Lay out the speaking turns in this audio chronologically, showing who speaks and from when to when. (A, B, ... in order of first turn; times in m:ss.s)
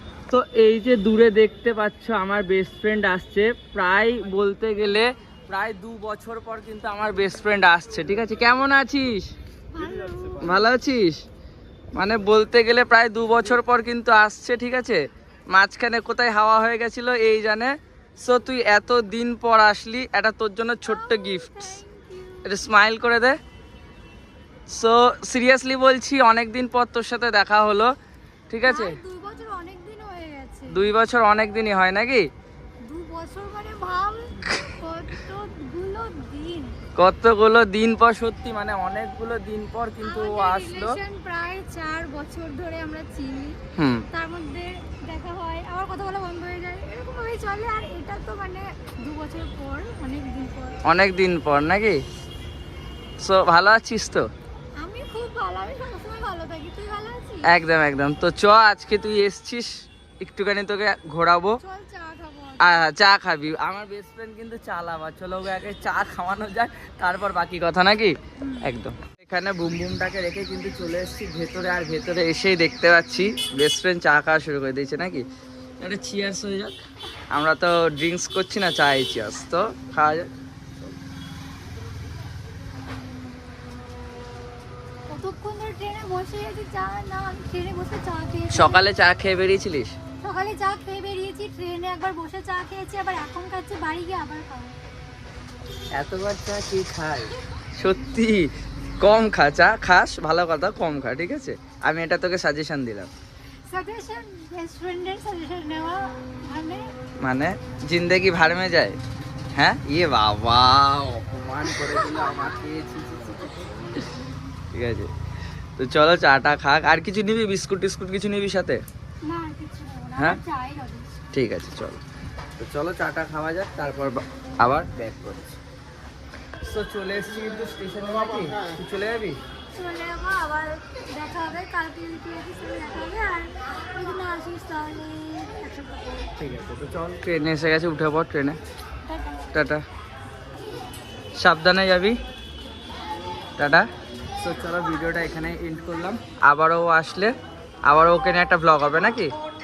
0:00.3-0:09.3 A
0:09.7-0:10.7 B
0:10.4-0:11.2 A
0:11.9-0:21.8 A
0:20.8-0:22.5 B
0:22.4-0:23.4 A
0:24.7-0:27.9 A
0:28.5-0:29.0 A
0:28.6-0:30.9 B
0:30.7-0:32.3 A
0:32.8-0:36.7 B
0:37.0-0:41.0 A
0:40.0-0:43.6 B
0:43.8-0:44.1 A
0:44.1-0:50.8 B
0:50.8-0:52.0 A
0:53.2-0:54.2 A
0:54.8-0:57.5 B
0:57.4-1:01.6 A
1:01.6-1:02.8 B
1:02.6-1:15.2 A
1:08.4-1:08.7 B
1:15.8-1:16.8 A
1:17.3-1:20.3 A
1:25.1-1:28.8 B
1:28.5-1:30.0 A
1:30.2-1:34.7 B
1:36.0-1:43.1 A
1:43.7-1:46.9 B
1:47.2-1:49.0 A
1:49.6-1:54.0 A
1:51.6-1:52.5 B
1:54.7-1:55.1 A
1:55.8-1:58.8 A
1:59.2-2:01.1 B
2:01.3-2:02.0 A
2:02.6-2:05.6 A
2:06.6-2:09.4 A
2:09.7-2:16.3 B
2:16.4-2:18.6 A
2:19.0-2:19.5 B
2:19.5-2:19.8 A
2:21.4-2:22.2 A
2:23.6-2:23.9 A
2:24.4-2:27.3 A
2:27.9-2:29.3 A